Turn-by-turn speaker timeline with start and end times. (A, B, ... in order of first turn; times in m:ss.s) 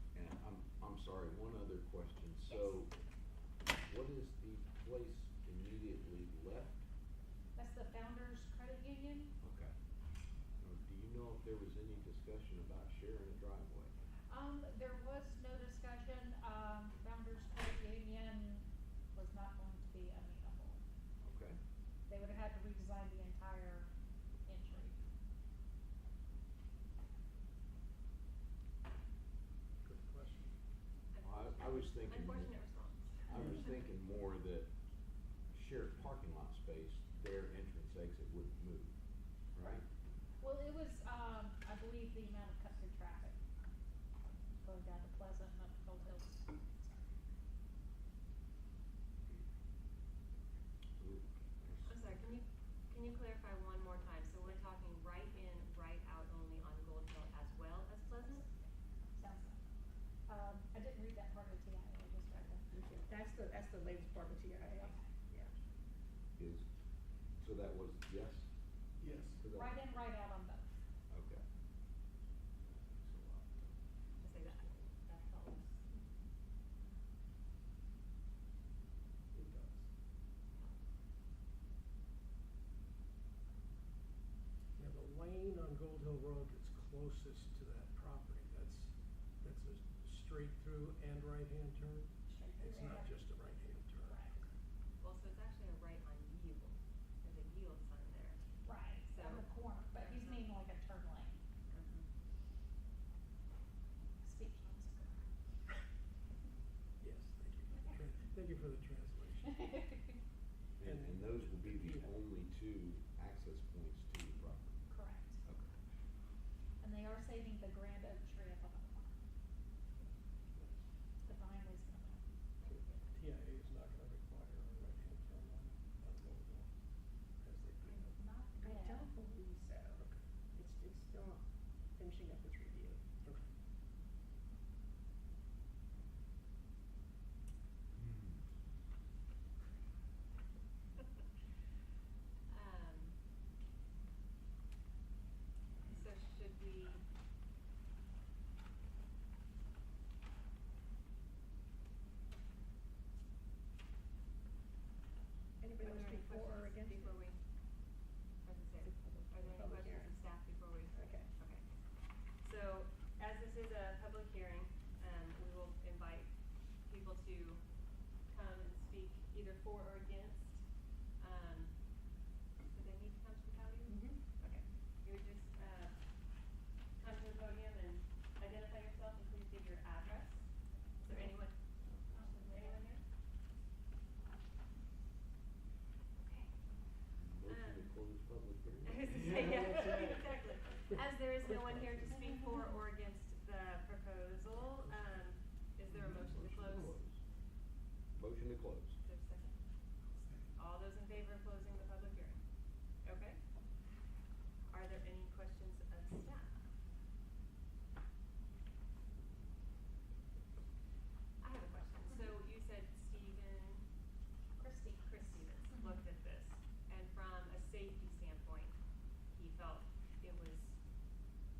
0:00.1-0:02.9 A
0:02.5-0:02.8 B
0:03.8-0:06.8 A
0:07.6-0:09.3 B
0:09.4-0:09.7 A
0:10.6-0:13.9 A
0:14.3-0:20.8 B
0:21.2-0:21.6 A
0:22.1-0:23.9 B
0:24.4-0:25.0 B
0:29.8-0:30.5 C
0:31.1-0:33.3 D
0:31.2-0:32.5 A
0:33.3-0:34.7 A
0:35.5-0:38.9 A
0:39.5-0:39.8 A
0:40.4-0:43.4 B
0:44.6-0:47.1 B
0:51.0-0:52.2 A
0:51.8-0:58.5 D
0:59.1-0:59.6 B
1:00.3-1:02.7 B
1:02.7-1:05.5 E
1:04.6-1:05.1 B
1:06.4-1:06.6 A
1:07.4-1:08.5 A
1:09.0-1:09.4 C
1:09.4-1:09.8 A
1:09.5-1:10.8 B
1:11.1-1:11.4 A
1:12.6-1:13.8 A
1:14.2-1:15.8 D
1:14.4-1:14.8 A
1:19.3-1:19.8 C
1:24.8-1:34.4 C
1:32.2-1:33.3 B
1:34.0-1:34.5 B
1:35.0-1:38.4 D
1:38.6-1:41.4 B
1:39.0-1:40.6 D
1:41.7-1:42.1 D
1:44.2-1:45.4 B
1:47.0-1:49.7 C
1:49.4-1:50.2 B
1:50.8-1:54.8 A
1:50.8-1:52.1 C
1:54.9-1:55.4 B
1:55.4-1:55.7 A
1:56.8-1:59.1 B
2:00.5-2:00.8 C
2:01.2-2:02.3 B
2:02.6-2:06.7 C
2:07.4-2:08.2 C
2:08.2-2:09.1 B
2:08.6-2:10.0 E
2:10.5-2:11.4 E
2:11.9-2:13.0 E
2:13.2-2:13.5 C
2:17.9-2:18.4 A
2:22.5-2:23.2 D
2:25.8-2:27.0 D
2:35.6-2:37.2 E
2:35.8-2:37.4 D
2:38.4-2:41.6 D
2:38.8-2:40.2 E
2:40.9-2:41.3 E
2:42.4-2:46.3 D
2:46.8-2:47.6 D
2:48.3-2:50.6 D
2:51.2-2:51.7 D
2:52.7-2:55.9 D
2:53.9-2:54.2 E
2:57.0-3:00.5 D
3:01.0-3:01.5 D
3:02.1-3:02.9 B
3:02.1-3:03.0 D
3:07.2-3:09.8 A
3:07.5-3:08.0 D
3:08.8-3:17.0 D
3:15.9-3:17.2 A
3:18.1-3:19.0 A
3:19.0-3:19.6 D
3:20.5-3:22.4 D
3:23.0-3:23.4 D
3:24.7-3:26.6 D
3:31.4-3:33.8 D
3:34.6-3:36.0 B
3:35.0-3:38.8 D
3:39.3-3:40.8 D